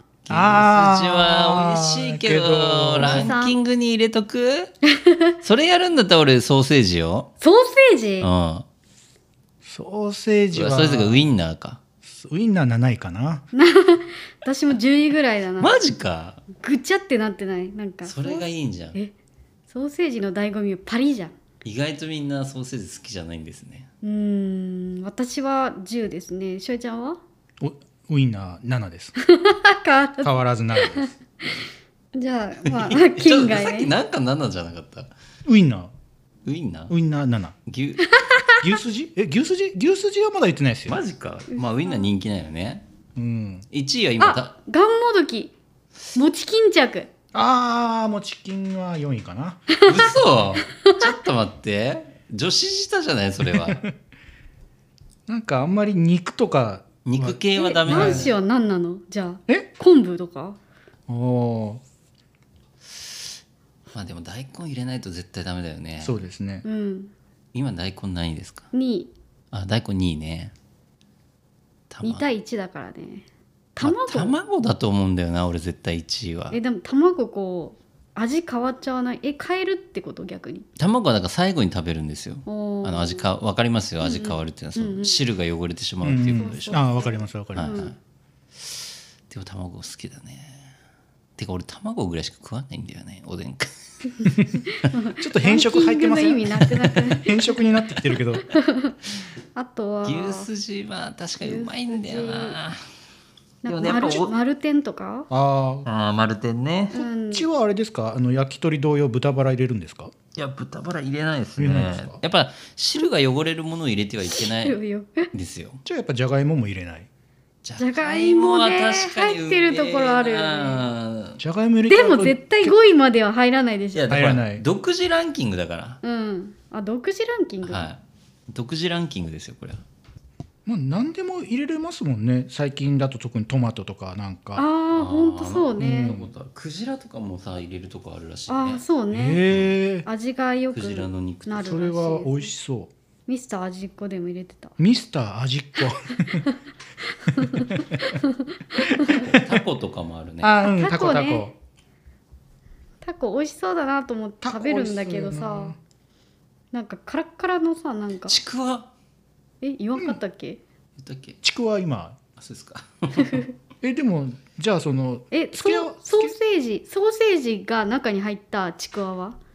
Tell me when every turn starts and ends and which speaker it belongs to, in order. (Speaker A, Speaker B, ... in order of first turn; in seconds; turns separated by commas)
Speaker A: 0.2-4.7, Speaker B: 0.3-3.3, Speaker C: 3.0-3.6, Speaker C: 4.9-5.3, Speaker A: 5.4-7.3, Speaker C: 7.4-8.3, Speaker A: 8.2-8.7, Speaker B: 9.6-11.3, Speaker A: 10.5-11.8, Speaker B: 12.1-13.4, Speaker C: 13.5-15.8, Speaker A: 15.6-16.4, Speaker C: 16.6-19.1, Speaker A: 18.1-19.0, Speaker C: 19.7-21.3, Speaker A: 21.6-23.9, Speaker C: 24.0-27.2, Speaker B: 27.6-29.1, Speaker C: 29.2-30.4, Speaker B: 30.2-31.1, Speaker C: 30.9-31.5, Speaker C: 32.1-33.9, Speaker A: 32.7-35.1, Speaker B: 35.4-35.9, Speaker A: 36.4-36.9, Speaker B: 36.9-37.6, Speaker A: 37.7-38.1, Speaker C: 38.1-38.6, Speaker B: 38.6-41.0, Speaker A: 40.9-42.8, Speaker C: 41.5-42.0, Speaker B: 43.1-43.6, Speaker A: 43.7-44.5, Speaker C: 44.2-45.5, Speaker C: 46.1-47.1, Speaker B: 47.3-49.7, Speaker C: 49.7-50.1, Speaker A: 49.8-53.9, Speaker C: 50.8-51.2, Speaker B: 53.5-53.9, Speaker B: 55.3-58.3, Speaker A: 57.0-58.4, Speaker C: 57.6-60.6, Speaker B: 61.1-61.8, Speaker A: 62.9-63.3, Speaker A: 63.9-66.2, Speaker B: 66.0-66.6, Speaker C: 66.6-67.1, Speaker A: 67.5-68.7, Speaker C: 68.7-69.1, Speaker A: 69.5-70.5, Speaker A: 71.9-72.2, Speaker C: 72.0-73.2, Speaker C: 73.8-74.3, Speaker A: 73.8-76.6, Speaker C: 76.5-80.7, Speaker A: 80.8-86.9, Speaker C: 82.5-83.3, Speaker C: 84.0-85.2, Speaker B: 86.0-87.8, Speaker C: 86.2-87.9, Speaker A: 87.5-88.0, Speaker A: 89.3-90.7, Speaker A: 91.4-93.7, Speaker C: 94.9-97.6, Speaker B: 95.2-98.4, Speaker C: 98.5-98.9, Speaker C: 99.5-100.5, Speaker A: 100.0-102.8, Speaker C: 101.4-102.6, Speaker C: 103.6-105.3, Speaker A: 103.7-104.3, Speaker B: 105.3-105.9, Speaker A: 105.8-107.0, Speaker C: 106.9-107.5, Speaker B: 107.2-110.1, Speaker A: 110.3-114.8, Speaker B: 111.6-112.2, Speaker C: 114.3-115.3, Speaker A: 115.3-115.8, Speaker B: 115.8-117.1, Speaker A: 117.6-121.4, Speaker C: 117.8-120.8, Speaker B: 121.4-122.7, Speaker C: 121.9-124.1, Speaker A: 123.9-126.0, Speaker B: 124.1-124.6, Speaker C: 126.0-127.9, Speaker A: 127.6-129.8, Speaker B: 130.7-134.6, Speaker C: 134.6-136.2, Speaker A: 134.9-138.8, Speaker B: 135.8-136.3, Speaker C: 138.5-139.4, Speaker B: 139.1-140.1, Speaker A: 139.5-139.7, Speaker C: 140.1-142.5, Speaker A: 140.7-141.8, Speaker B: 141.6-142.9, Speaker C: 143.3-144.8, Speaker B: 144.8-146.4, Speaker C: 147.3-149.4, Speaker B: 147.4-147.9, Speaker B: 149.0-149.5, Speaker A: 149.2-150.6, Speaker B: 150.4-151.5, Speaker C: 150.6-151.5, Speaker C: 153.0-155.7, Speaker B: 154.4-155.8, Speaker C: 156.7-158.4, Speaker A: 158.3-158.9, Speaker C: 159.6-160.6, Speaker A: 161.0-161.4, Speaker B: 161.4-162.2, Speaker A: 162.4-163.4, Speaker C: 163.2-163.5, Speaker B: 163.8-166.4, Speaker C: 165.3-169.4